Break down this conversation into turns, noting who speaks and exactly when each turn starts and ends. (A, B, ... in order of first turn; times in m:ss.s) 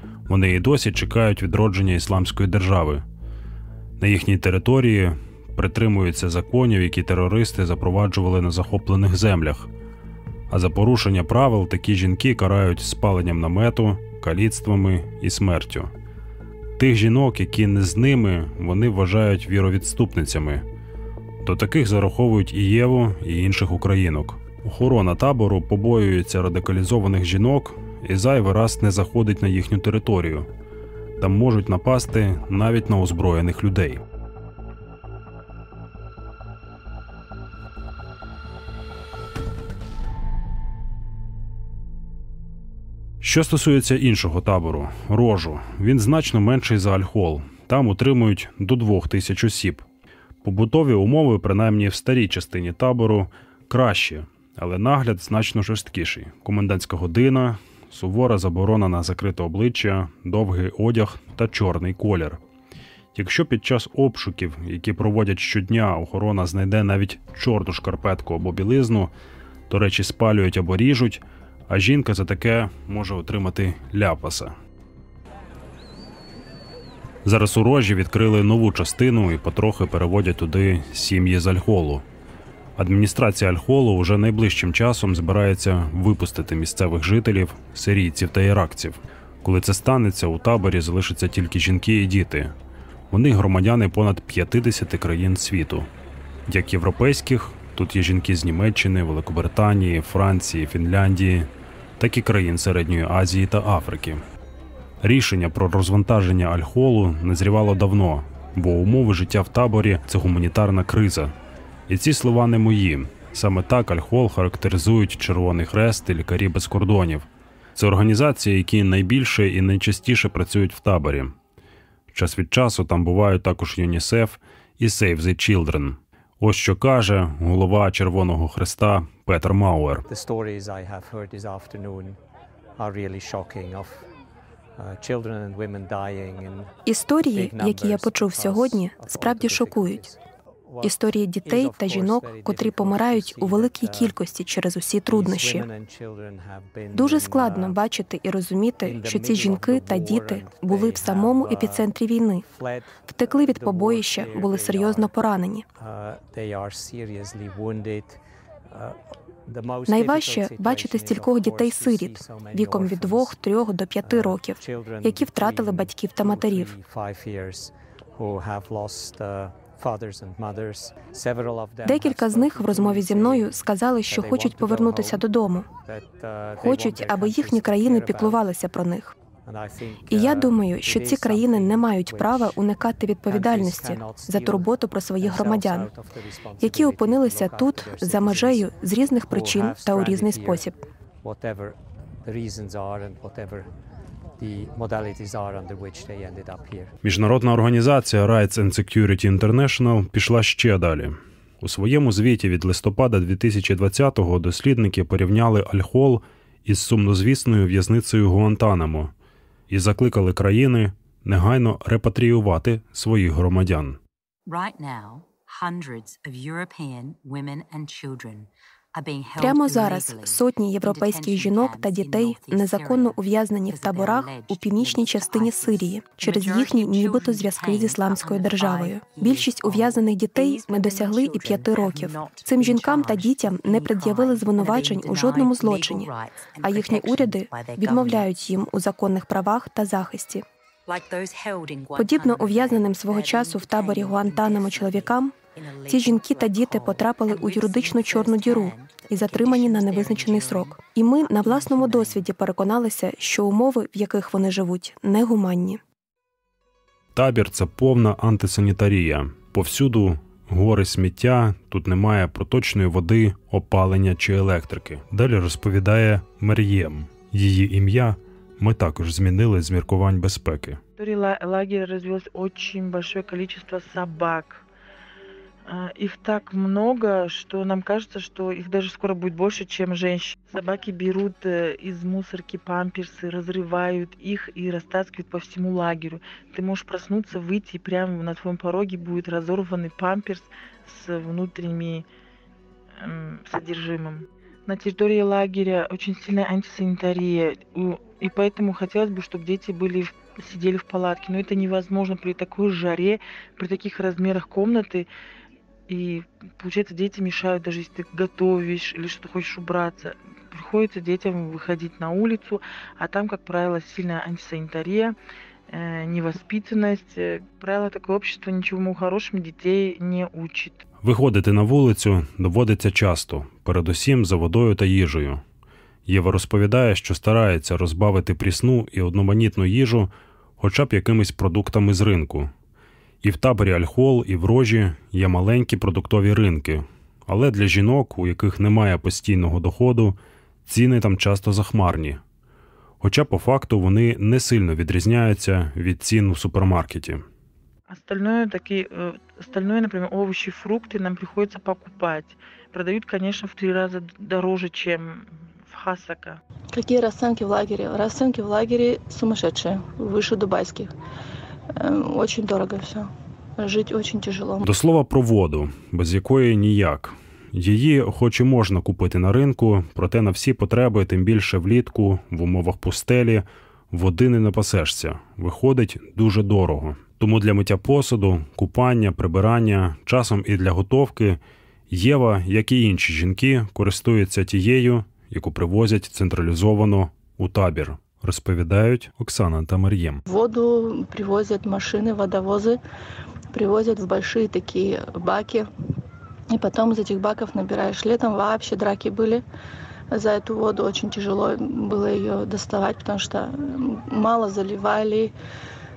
0:00.3-0:03.0 A
0:04.0-0:09.7 A
0:10.5-0:15.9 A
0:16.8-0:20.6 A
0:21.4-0:30.5 A
0:31.2-0:34.0 A
0:43.2-0:49.8 A
0:50.4-1:02.4 A
1:03.1-1:09.1 A
1:09.7-1:14.5 A
1:17.2-1:22.0 A
1:22.8-1:32.5 A
1:33.1-1:35.9 A
1:36.5-1:44.2 A
1:45.0-1:51.3 A
1:51.9-2:01.4 A
2:02.1-2:10.0 A
2:10.1-2:12.2 B
2:12.8-2:14.1 B
2:14.8-2:16.7 B
2:16.9-2:20.0 C
2:17.2-2:24.2 B
2:20.8-2:25.7 C
2:25.1-2:27.8 B
2:26.9-2:32.4 C
2:28.8-2:35.1 B
2:33.1-2:35.6 C
2:35.8-2:43.4 B
2:39.9-2:46.7 C
2:44.0-2:53.6 B
2:51.8-2:55.7 C
2:54.1-2:55.2 B
2:55.8-2:58.4 B
2:56.6-2:59.1 C
2:59.4-3:02.6 B
3:00.1-3:05.9 C
3:03.2-3:08.7 B
3:06.6-3:10.8 C
3:09.2-3:10.7 B
3:11.2-3:13.7 B
3:14.4-3:17.0 B
3:17.0-3:29.1 A
3:29.7-3:34.0 A
3:34.4-3:58.3 D
3:39.4-4:00.4 C
4:00.9-4:12.3 D
4:01.9-4:05.4 C
4:05.9-4:15.8 C
4:17.1-4:30.8 A
4:31.0-4:34.6 E
4:35.7-4:52.1 E
4:53.0-5:05.1 E
5:05.9-5:15.1 E
5:15.7-5:20.8 E
5:21.0-5:25.4 A
5:26.1-5:32.5 A
5:33.2-5:42.2 A
5:43.0-5:47.2 A
5:47.9-5:56.4 E
5:56.7-6:00.9 F
6:01.8-6:04.6 F
6:04.6-6:30.2 A
6:30.3-6:32.8 F
6:33.5-6:35.7 F
6:36.5-6:39.4 F
6:40.1-6:45.3 F